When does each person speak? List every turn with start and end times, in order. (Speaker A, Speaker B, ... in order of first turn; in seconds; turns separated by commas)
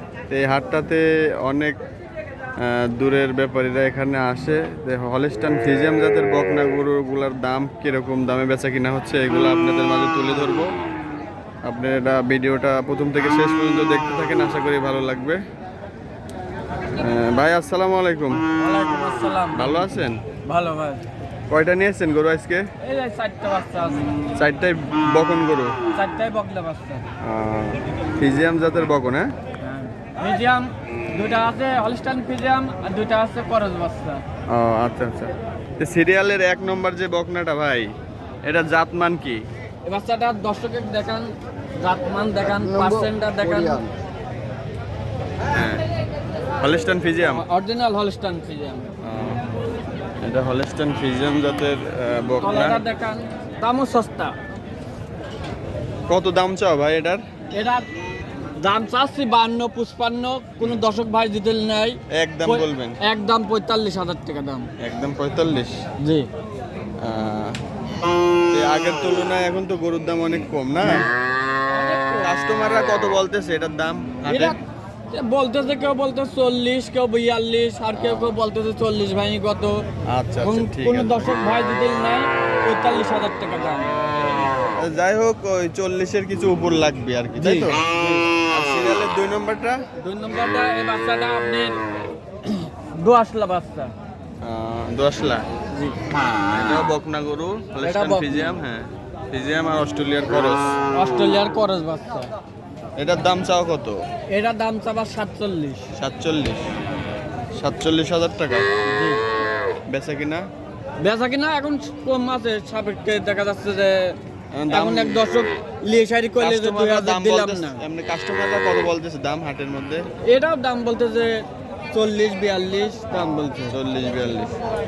Speaker A: 0.3-1.7, Speaker A: 2.6-10.7, Speaker A: 11.6-15.4, Speaker A: 16.9-18.4, Speaker B: 18.6-21.0, Speaker A: 19.5-20.2, Speaker A: 21.5-22.6, Speaker B: 22.8-24.1, Speaker A: 24.4-25.7, Speaker B: 25.9-27.0, Speaker A: 27.2-29.3, Speaker B: 29.6-34.2, Speaker A: 34.5-37.9, Speaker A: 38.5-39.4, Speaker B: 39.8-43.9, Speaker A: 45.5-45.8, Speaker A: 46.6-47.4, Speaker B: 47.4-48.9, Speaker A: 49.0-49.5, Speaker A: 50.2-52.8, Speaker B: 52.4-54.3, Speaker A: 56.1-57.2, Speaker B: 57.5-57.9, Speaker B: 58.6-64.7, Speaker A: 62.1-63.0, Speaker A: 64.8-65.8, Speaker B: 66.0-66.3, Speaker A: 67.0-67.5, Speaker A: 68.5-71.1, Speaker B: 71.7-72.3, Speaker A: 72.2-74.6, Speaker B: 74.3-74.6, Speaker B: 75.1-79.8, Speaker A: 77.9-78.3, Speaker A: 80.1-81.3, Speaker B: 80.4-83.9, Speaker A: 84.8-87.8, Speaker B: 87.4-88.3, Speaker A: 88.5-89.8, Speaker B: 90.0-91.8, Speaker B: 92.4-93.9, Speaker A: 94.4-95.4, Speaker B: 95.7-96.0, Speaker A: 96.5-100.7, Speaker B: 97.8-98.5, Speaker B: 100.9-102.3, Speaker A: 103.0-104.0, Speaker B: 104.3-105.8, Speaker A: 106.0-106.6, Speaker A: 107.6-108.6, Speaker B: 108.8-109.2, Speaker A: 109.9-110.4, Speaker B: 111.0-114.2, Speaker A: 114.5-115.2, Speaker B: 114.7-117.8, Speaker A: 116.4-120.0, Speaker B: 120.3-123.7, Speaker A: 123.7-124.5